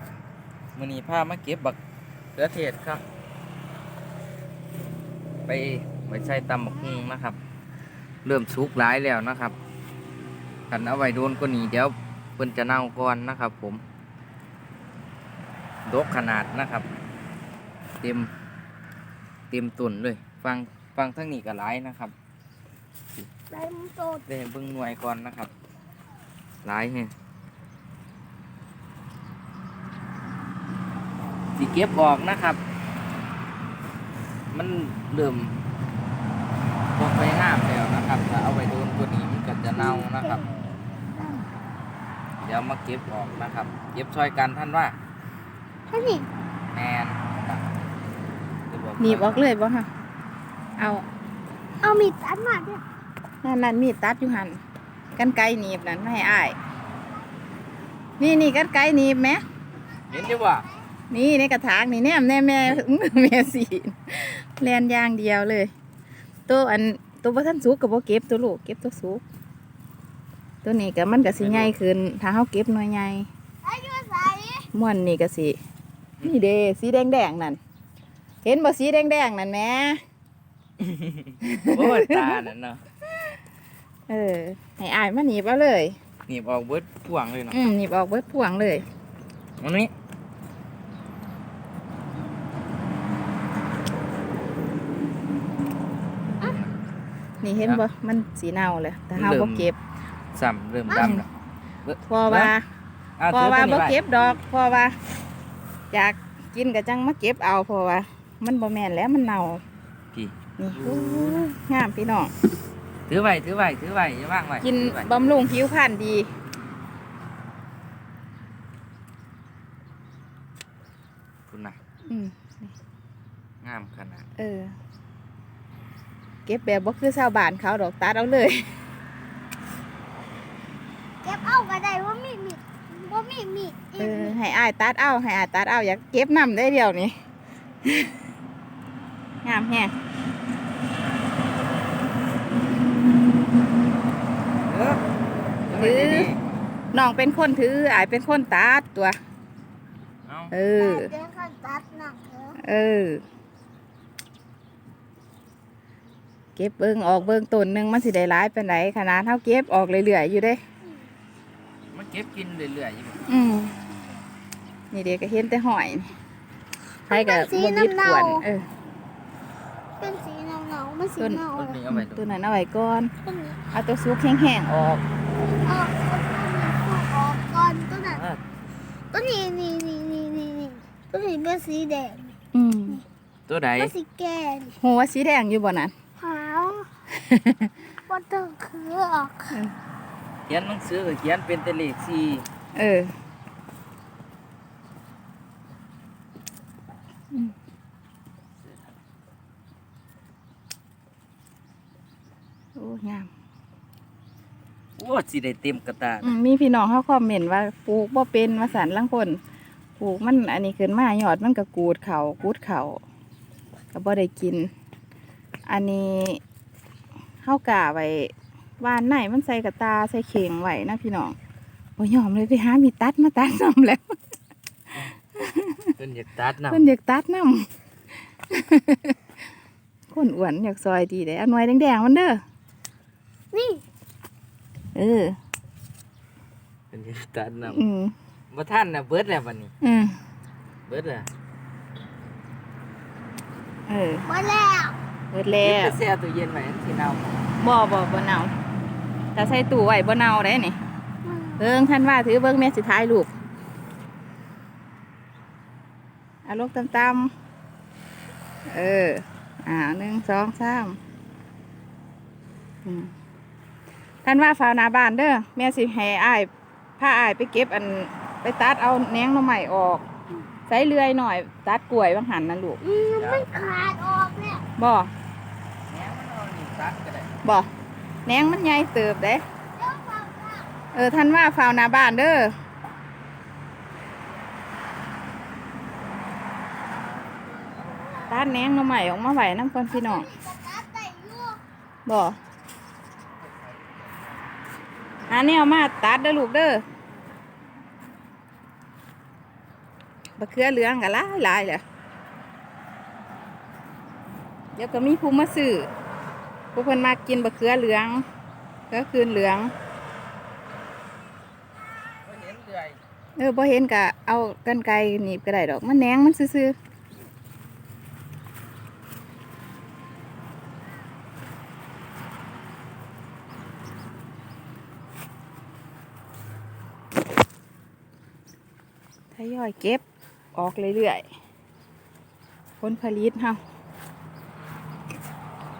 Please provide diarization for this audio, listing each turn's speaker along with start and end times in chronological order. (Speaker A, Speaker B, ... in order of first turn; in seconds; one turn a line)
Speaker A: 0.7-1.8
Speaker A: 2.3-3.0
Speaker A: 5.5-7.4
Speaker A: 8.2-9.6
Speaker A: 10.7-13.8
Speaker A: 15.8-16.9
Speaker A: 18.0-18.3
Speaker A: 19.5-22.1
Speaker B: 23.5-24.2
Speaker A: 24.3-25.5
Speaker A: 26.6-27.1
Speaker A: 31.6-32.6
Speaker A: 34.5-35.6
Speaker A: 37.0-40.4
Speaker B: 39.8-41.5
Speaker A: 42.4-45.0
Speaker B: 45.9-46.3
Speaker A: 46.7-47.7
Speaker A: 48.7-49.5
Speaker C: 49.0-49.9
Speaker C: 50.8-51.0
Speaker B: 51.8-52.8
Speaker C: 53.4-54.6
Speaker C: 55.1-56.5
Speaker C: 58.2-59.4
Speaker A: 60.1-60.7
Speaker C: 61.1-65.7
Speaker C: 66.5-69.2
Speaker C: 70.6-73.3
Speaker A: 71.3-71.7
Speaker B: 73.6-74.7
Speaker C: 74.7-75.5
Speaker C: 76.2-77.6
Speaker C: 78.4-80.0
Speaker A: 80.8-82.8
Speaker C: 81.4-82.3
Speaker C: 84.1-86.0
Speaker A: 86.3-87.6
Speaker C: 87.5-88.8
Speaker A: 89.6-89.9
Speaker A: 96.4-96.7
Speaker C: 97.4-99.8
Speaker A: 97.6-97.8
Speaker A: 99.2-99.7
Speaker A: 100.3-101.3
Speaker B: 100.9-101.2
Speaker C: 101.0-101.2
Speaker A: 101.8-102.5
Speaker C: 102.0-102.6
Speaker A: 103.2-104.0
Speaker C: 103.3-105.0
Speaker C: 105.9-109.6
Speaker A: 110.1-111.4
Speaker C: 110.6-112.3
Speaker A: 113.1-115.1
Speaker C: 114.6-116.3
Speaker A: 121.5-121.8
Speaker C: 122.1-122.7
Speaker A: 123.6-124.2
Speaker C: 124.4-124.7
Speaker C: 126.5-128.7
Speaker B: 131.2-134.3
Speaker C: 134.0-137.1
Speaker C: 139.4-139.9
Speaker A: 144.6-145.0
Speaker A: 145.6-146.5
Speaker C: 145.7-146.3
Speaker C: 146.9-149.1
Speaker A: 150.3-150.5
Speaker C: 150.5-151.1
Speaker B: 150.8-152.6
Speaker C: 152.6-153.2
Speaker C: 156.6-160.6
Speaker A: 161.9-163.3
Speaker C: 163.3-163.7
Speaker C: 164.9-166.1
Speaker B: 167.1-168.4
Speaker C: 167.1-168.6
Speaker B: 170.0-171.8
Speaker C: 171.2-173.1
Speaker A: 171.5-172.3
Speaker B: 173.2-173.6
Speaker C: 173.7-175.0
Speaker B: 175.5-178.2
Speaker A: 178.0-178.4
Speaker B: 179.1-182.3
Speaker C: 182.5-183.0
Speaker A: 183.5-183.9
Speaker B: 183.8-184.7
Speaker C: 184.8-185.9
Speaker B: 186.2-186.9
Speaker C: 187.1-187.7
Speaker B: 188.1-189.6
Speaker A: 190.5-192.4
Speaker C: 192.7-193.1
Speaker C: 202.8-203.3
Speaker A: 205.0-206.3
Speaker C: 206.2-209.4
Speaker C: 210.0-213.0
Speaker C: 213.9-214.7
Speaker C: 215.7-216.4
Speaker C: 217.4-221.3
Speaker C: 222.0-224.1
Speaker C: 225.3-225.9
Speaker A: 226.0-226.9
Speaker C: 226.7-227.6
Speaker C: 228.5-229.2
Speaker C: 230.1-232.4
Speaker B: 233.5-233.8
Speaker C: 234.9-235.3
Speaker A: 236.9-237.8
Speaker C: 237.7-238.1
Speaker A: 238.5-239.7
Speaker C: 239.8-240.2
Speaker A: 240.9-241.3
Speaker C: 243.9-244.2
Speaker B: 244.2-245.0
Speaker C: 245.3-246.0
Speaker A: 245.6-247.4
Speaker C: 247.6-248.5
Speaker C: 249.3-250.8
Speaker B: 251.2-251.7
Speaker C: 251.6-253.3
Speaker C: 256.4-257.3
Speaker C: 258.7-261.0
Speaker C: 262.8-263.1
Speaker C: 264.2-270.0
Speaker C: 270.7-272.8
Speaker B: 272.8-274.6
Speaker A: 272.9-273.5
Speaker C: 274.8-275.1
Speaker A: 275.9-277.3
Speaker C: 278.2-279.4
Speaker B: 279.8-280.7
Speaker C: 280.9-282.5
Speaker B: 287.6-288.4
Speaker C: 288.3-290.3
Speaker B: 289.9-291.6
Speaker C: 292.1-292.4
Speaker A: 293.4-294.2
Speaker C: 295.3-296.8
Speaker C: 300.4-301.8
Speaker C: 304.8-305.9
Speaker C: 306.7-308.2
Speaker C: 308.9-309.7
Speaker A: 312.2-313.0
Speaker C: 313.4-316.7
Speaker C: 329.3-330.0
Speaker C: 330.5-331.2
Speaker C: 332.8-333.6